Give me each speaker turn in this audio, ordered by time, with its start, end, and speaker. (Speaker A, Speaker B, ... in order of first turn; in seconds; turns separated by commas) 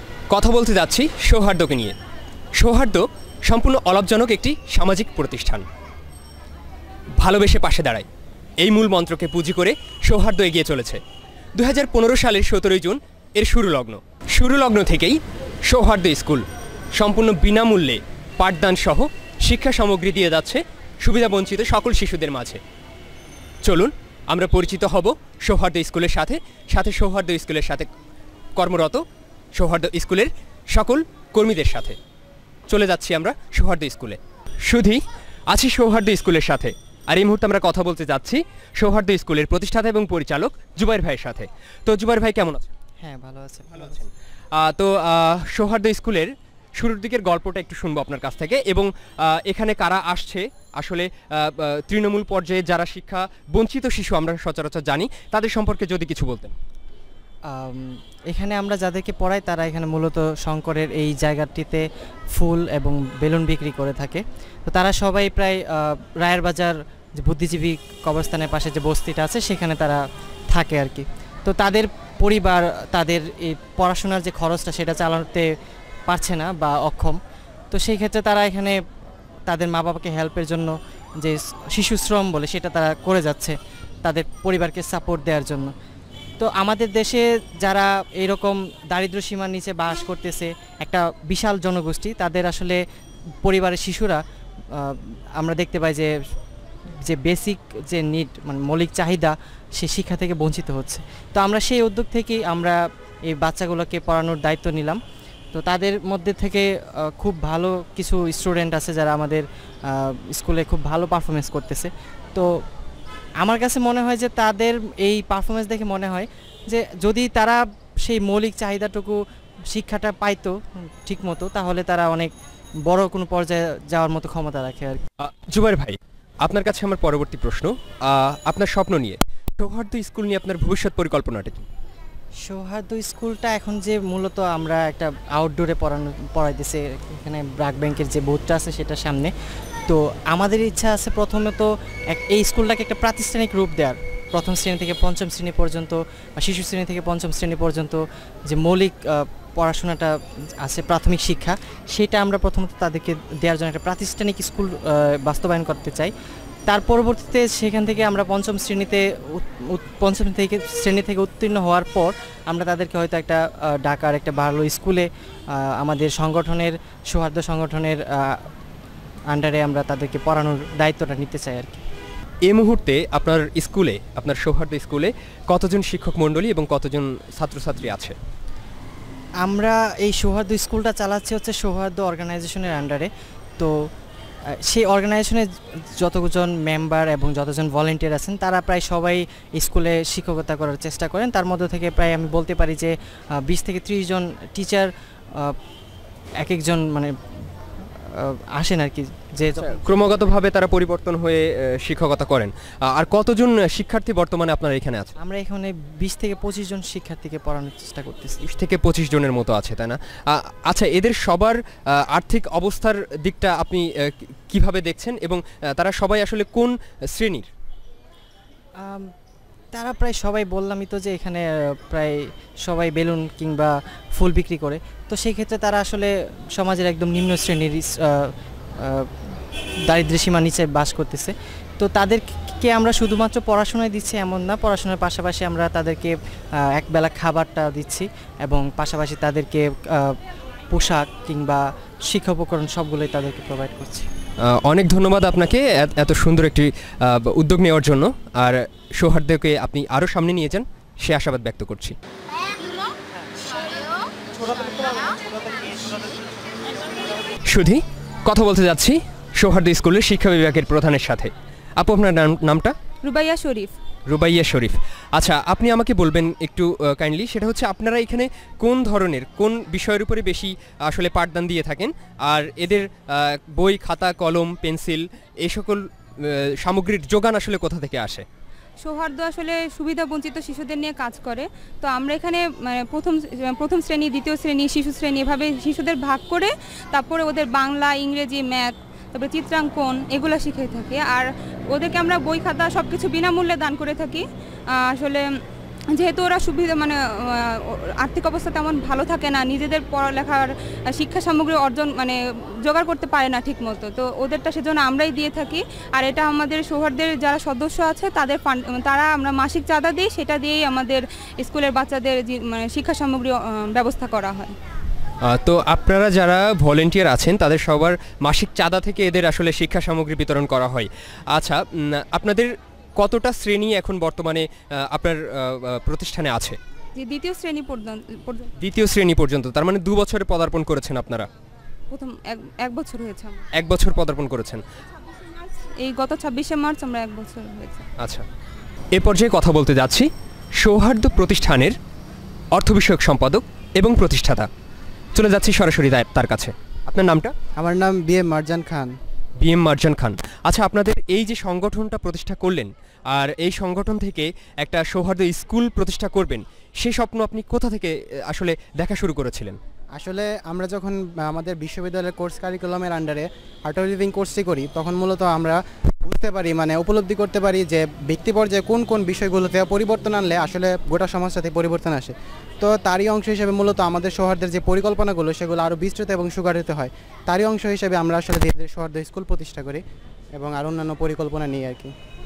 Speaker A: 0.3-1.9, Speaker A: 2.6-5.7, Speaker A: 7.2-8.1, Speaker A: 8.6-11.0, Speaker A: 11.6-16.4, Speaker A: 17.0-22.6, Speaker A: 23.6-27.9, Speaker A: 28.6-29.0, Speaker A: 29.6-32.0, Speaker A: 32.7-42.7, Speaker B: 43.0-44.0, Speaker A: 43.8-56.5, Speaker B: 57.5-75.5, Speaker B: 76.1-77.2, Speaker B: 77.7-78.8, Speaker B: 79.5-85.7, Speaker B: 86.4-92.8, Speaker B: 93.4-94.2, Speaker B: 94.7-96.1, Speaker B: 97.0-105.0, Speaker B: 105.5-112.5, Speaker B: 113.4-119.2, Speaker B: 119.7-122.3, Speaker B: 122.9-125.0, Speaker A: 125.2-131.7, Speaker B: 132.4-139.3, Speaker B: 139.9-156.1, Speaker B: 156.7-168.5, Speaker B: 169.3-171.8, Speaker A: 172.5-178.2, Speaker B: 179.4-183.7, Speaker B: 184.7-195.6, Speaker B: 196.4-197.1, Speaker B: 198.0-199.8, Speaker A: 199.6-205.1, Speaker B: 205.2-208.4, Speaker A: 208.4-217.5, Speaker B: 218.8-219.1, Speaker B: 219.7-228.3, Speaker B: 228.8-229.1, Speaker B: 229.9-236.1, Speaker B: 236.7-240.2, Speaker B: 240.7-244.1, Speaker A: 244.7-251.9, Speaker C: 254.6-255.9, Speaker A: 257.5-262.7, Speaker D: 263.0-263.7, Speaker A: 264.1-278.2, Speaker D: 278.8-294.2, Speaker D: 294.9-295.2, Speaker D: 295.9-314.6, Speaker A: 315.2-326.6, Speaker D: 327.0-328.5, Speaker A: 328.6-331.3, Speaker D: 331.9-333.4, Speaker A: 333.6-334.6, Speaker D: 335.8-337.8, Speaker A: 338.0-338.3, Speaker A: 338.9-340.1, Speaker A: 340.6-341.8, Speaker A: 342.5-344.5, Speaker A: 345.1-347.3, Speaker C: 347.6-348.9, Speaker A: 349.4-359.6, Speaker C: 360.0-379.8, Speaker C: 380.4-381.9